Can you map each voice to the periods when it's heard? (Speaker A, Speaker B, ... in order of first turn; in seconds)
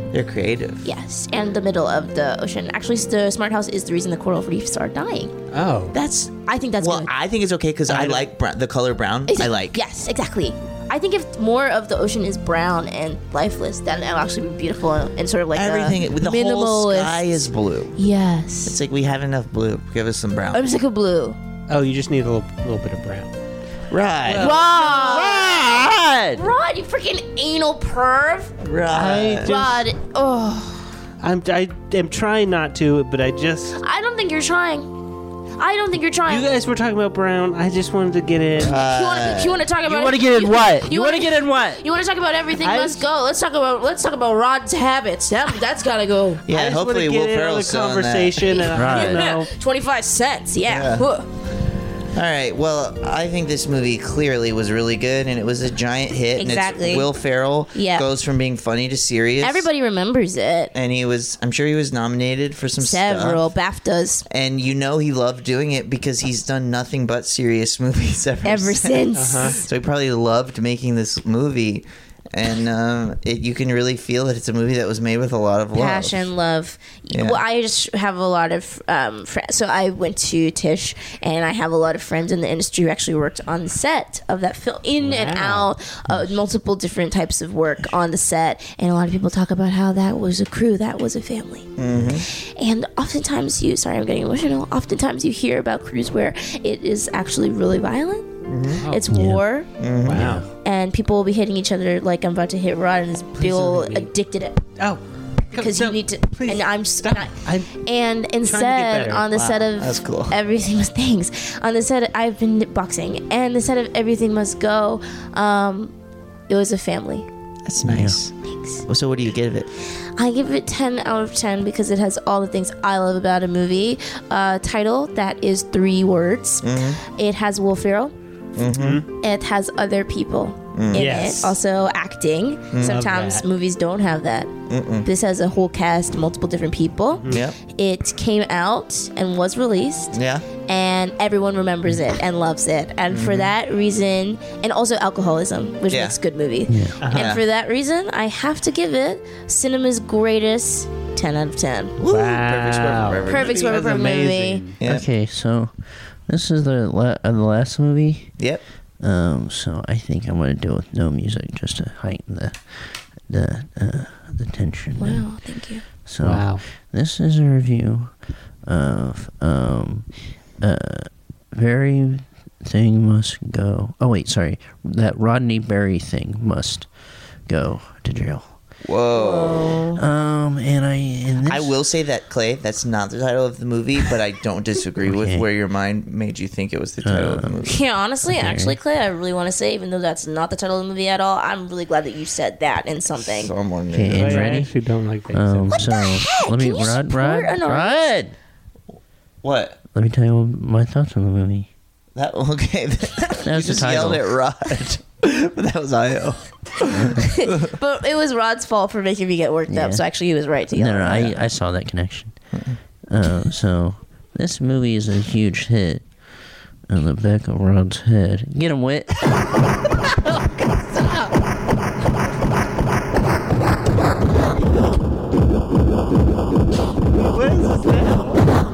Speaker A: 0.1-0.9, 5.9-9.8, 15.5-18.0, 18.6-20.6, 23.9-26.4, 28.6-29.5, 38.6-39.6, 46.5-48.6, 50.6-51.1, 52.1-59.7, 60.7-63.5, 64.3-76.3, 77.1-77.4, 91.8-92.2, 98.4-98.8, 99.8-100.4, 109.3-110.4, 117.7-118.3, 118.9-119.7, 126.6-127.0, 128.6-129.0, 130.7-131.1, 132.7-133.0, 134.7-135.1, 137.3-137.6, 140.1-140.5, 143.1-143.5, 145.9-146.2, 147.1-147.4, 152.0-153.8, 154.8-155.1, 178.8-179.8, 181.4-187.8, 193.2-194.6, 199.4-199.8, 202.2-207.7, 227.4-228.3
Speaker B: 0.8-5.3, 6.4-7.1, 9.3-18.8, 20.5-21.4, 24.4-25.5, 26.4-28.6, 29.4-30.9, 33.8-34.9, 35.6-36.5, 38.7-46.5, 48.5-51.3, 56.4-57.1, 57.7-58.1, 59.4-60.7, 62.8-64.3, 68.4-69.6, 75.7-98.4, 98.9-99.7, 100.6-104.6, 105.5-115.9, 116.5-117.3, 118.5-118.8, 120.2-128.1, 129.2-134.5, 135.1-140.2, 140.7-152.0, 153.3-154.7, 165.0-165.8, 179.1-180.0, 187.7-193.5, 196.0-198.1, 207.4-211.3
Speaker C: 5.5-5.9, 7.9-8.3, 21.7-23.3, 24.2-24.6, 28.9-29.9, 31.2-33.8, 36.3-38.8, 42.6-43.0, 46.5-49.5, 69.2-69.6, 85.0-85.7, 98.8-99.0, 100.0-100.4, 103.4-104.1, 105.5-107.8, 108.4-109.3, 128.7-129.1, 130.9-131.6, 132.8-133.5, 137.2-137.4, 147.0-147.3, 152.1-154.8, 166.2-166.6, 194.1-195.9
Speaker D: 24.9-25.8, 39.9-41.8, 48.8-49.5, 99.1-99.4, 100.2-100.5, 117.8-118.2, 146.7-147.0, 154.8-158.3, 159.0-165.4, 166.1-178.6, 179.9-181.7, 185.1-185.4, 187.0-187.7, 188.2-188.8, 193.9-194.8, 195.3-198.3, 199.9-201.7, 203.4-204.3, 209.7-210.0, 210.7-212.4, 213.1-219.2